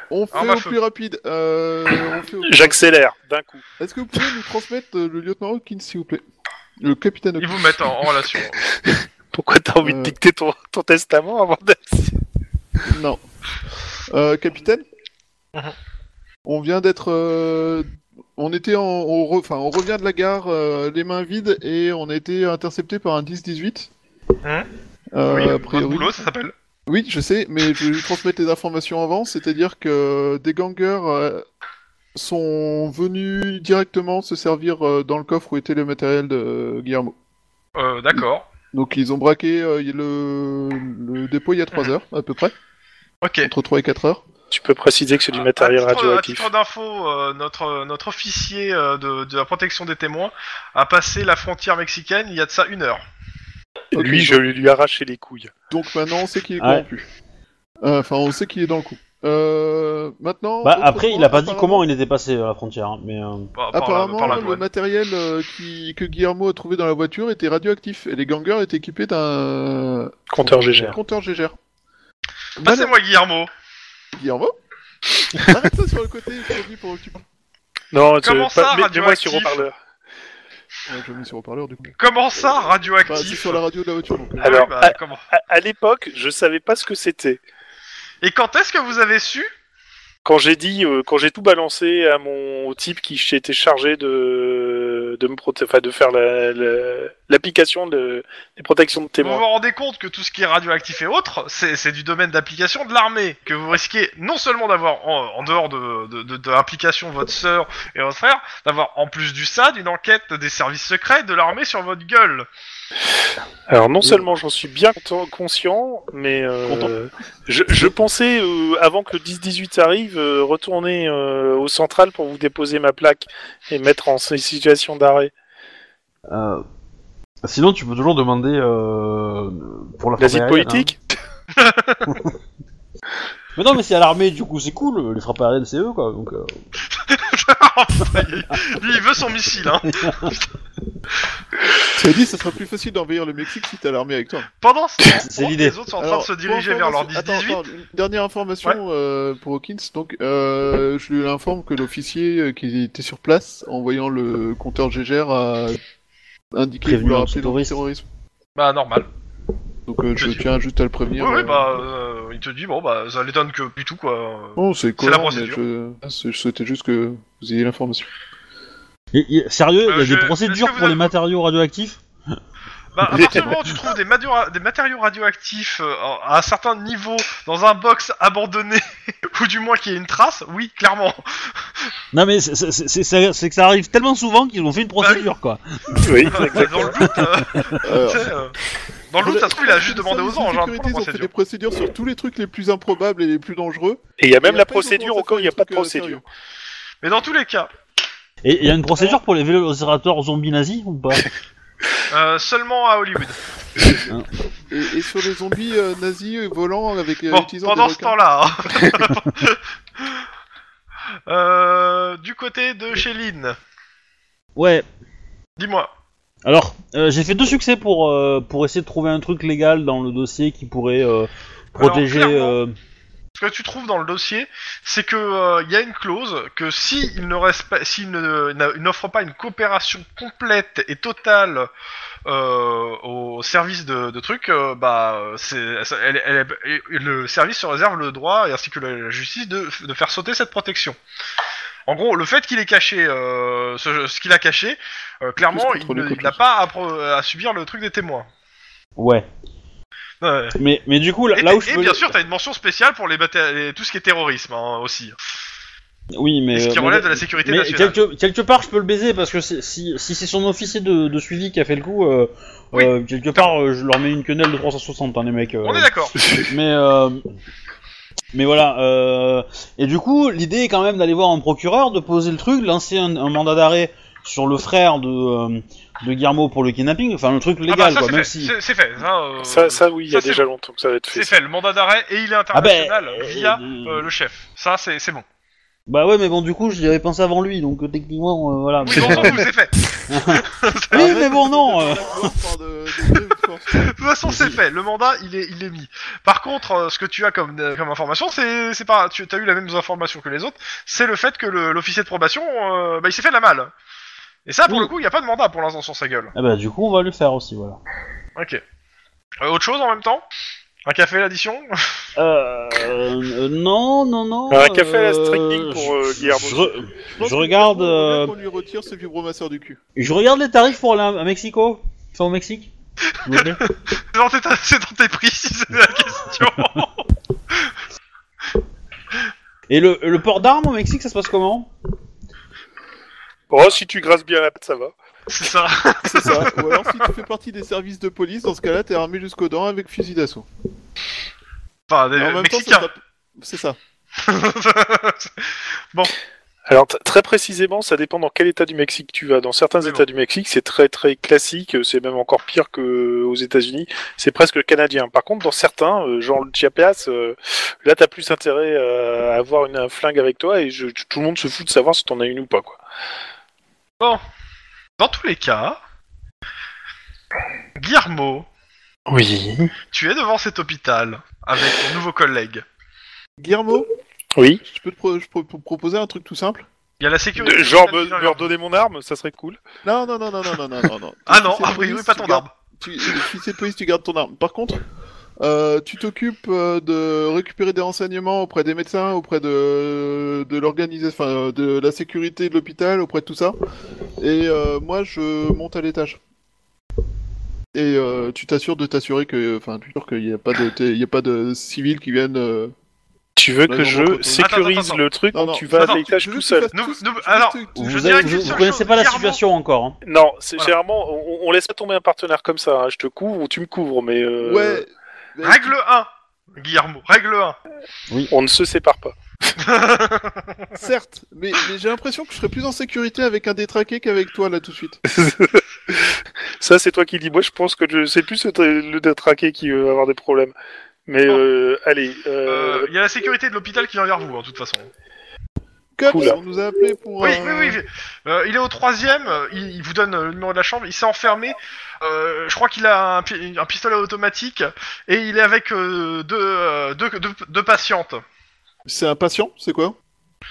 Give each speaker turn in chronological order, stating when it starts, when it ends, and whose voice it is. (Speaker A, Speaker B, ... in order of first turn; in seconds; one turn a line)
Speaker A: 0.1-2.8
Speaker B: 0.3-0.8
Speaker C: 2.4-3.6
Speaker A: 3.8-6.2
Speaker A: 6.8-7.8
Speaker B: 7.4-8.6
Speaker C: 8.7-12.2
Speaker A: 9.8-10.2
Speaker A: 12.9-13.2
Speaker A: 14.1-14.8
Speaker A: 16.4-23.9
Speaker A: 25.1-26.2
Speaker B: 25.3-26.5
Speaker A: 26.9-31.4
Speaker A: 32.1-37.1
Speaker B: 37.7-38.5
Speaker A: 38.1-42.5
Speaker B: 43.2-43.5
Speaker A: 43.4-44.2
Speaker C: 44.5-46.5
Speaker B: 45.3-53.0
Speaker A: 53.9-54.4
Speaker C: 53.9-55.5
Speaker A: 55.7-57.0
Speaker D: 56.6-56.9
Speaker A: 57.8-61.8
Speaker D: 60.6-63.5
Speaker B: 63.5-64.6
Speaker A: 63.7-71.5
Speaker C: 70.3-71.0
Speaker A: 72.6-72.9
Speaker B: 72.6-73.5
Speaker A: 74.1-74.5
Speaker A: 75.3-77.2
Speaker C: 77.9-79.7
Speaker B: 78.2-79.7
Speaker A: 80.9-81.9
Speaker B: 82.0-83.6
Speaker A: 83.1-84.7
Speaker B: 84.4-85.2
Speaker C: 84.4-87.4
Speaker B: 88.2-89.5
Speaker C: 90.2-99.4
Speaker B: 99.2-112.5
Speaker C: 113.7-125.3
Speaker A: 116.7-116.9
Speaker D: 126.3-126.6
Speaker D: 127.4-130.9
Speaker C: 130.2-131.0
Speaker B: 131.6-132.1
Speaker D: 132.1-132.3
Speaker D: 133.6-136.6
Speaker B: 137.0-140.5
Speaker D: 139.9-140.3
Speaker A: 141.9-144.5
Speaker B: 144.6-147.6
Speaker D: 145.1-145.8
Speaker A: 146.0-155.8
Speaker A: 156.5-158.0
Speaker D: 156.8-157.8
Speaker B: 158.6-159.1
Speaker A: 159.9-161.8
Speaker B: 160.2-160.5
Speaker B: 161.2-165.6
Speaker A: 164.6-168.1
Speaker D: 169.1-172.0
Speaker B: 169.8-171.1
Speaker B: 172.9-181.6
Speaker D: 173.1-173.8
Speaker D: 182.1-187.7
Speaker B: 185.0-185.2
Speaker C: 186.0-186.9
Speaker B: 186.3-188.6
Speaker A: 187.8-188.3
Speaker B: 189.1-191.3
Speaker A: 189.2-196.2
Speaker C: 194.2-196.2
Speaker B: 197.0-197.7
Speaker D: 198.4-201.3
Speaker B: 202.1-203.4
Speaker A: 204.7-208.1
Speaker B: 207.3-210.2
Speaker B: 211.3-213.6
Speaker D: 214.6-214.8
Speaker B: 215.6-215.9
Speaker D: 216.4-222.7
Speaker B: 221.8-222.6
Speaker B: 223.3-231.7
Speaker B: 232.2-241.0
Speaker B: 241.9-248.3
Speaker A: 245.5-246.4
Speaker D: 249.0-249.3
Speaker B: 250.2-250.6
Speaker D: 250.6-252.1
Speaker B: 251.3-255.2
Speaker D: 256.1-267.2
Speaker B: 256.5-257.9
Speaker B: 262.7-263.5
Speaker B: 265.6-266.1
Speaker D: 268.3-278.5
Speaker B: 277.7-280.4
Speaker C: 279.4-281.3
Speaker B: 281.1-285.2
Speaker D: 282.5-284.1
Speaker D: 285.9-289.4
Speaker B: 288.8-289.8
Speaker D: 290.1-292.3
Speaker B: 290.3-291.1
Speaker A: 290.9-293.9
Speaker B: 293.8-303.7
Speaker D: 294.2-294.6
Speaker B: 304.4-306.3
Speaker D: 306.3-307.8
Speaker B: 308.4-308.6
Speaker B: 309.4-310.2
Speaker B: 310.8-311.7
Speaker D: 312.2-318.3
Speaker C: 314.5-316.8
Speaker A: 317.1-319.8
Speaker D: 319.9-323.6
Speaker B: 323.3-327.0
Speaker D: 329.7-331.7
Speaker C: 333.5-334.9
Speaker B: 335.3-337.1
Speaker A: 336.0-340.4
Speaker B: 341.9-342.9
Speaker A: 342.1-343.8
Speaker B: 344.2-346.1
Speaker C: 346.7-362.8
Speaker B: 365.0-365.8
Speaker B: 367.8-368.4
Speaker C: 369.1-369.7
Speaker B: 369.9-372.6
Speaker A: 373.4-373.9
Speaker C: 374.4-374.6
Speaker A: 374.6-376.7
Speaker B: 377.0-378.5
Speaker C: 377.4-379.6
Speaker A: 379.8-384.8
Speaker B: 381.3-382.5
Speaker A: 385.4-393.5
Speaker A: 394.2-396.2
Speaker A: 397.7-402.7
Speaker C: 403.4-406.7
Speaker A: 403.7-404.5
Speaker B: 404.4-405.0
Speaker A: 405.3-408.6
Speaker B: 405.7-406.0
Speaker B: 406.7-409.4
Speaker D: 407.8-410.0
Speaker C: 410.0-414.8
Speaker A: 414.4-415.7
Speaker B: 415.4-417.6
Speaker C: 418.3-419.1
Speaker B: 419.6-420.7
Speaker A: 420.7-425.0
Speaker C: 425.1-430.5
Speaker C: 431.1-432.9
Speaker B: 432.5-434.9
Speaker A: 436.0-437.8
Speaker C: 436.1-436.4
Speaker B: 437.2-448.2
Speaker A: 448.9-449.9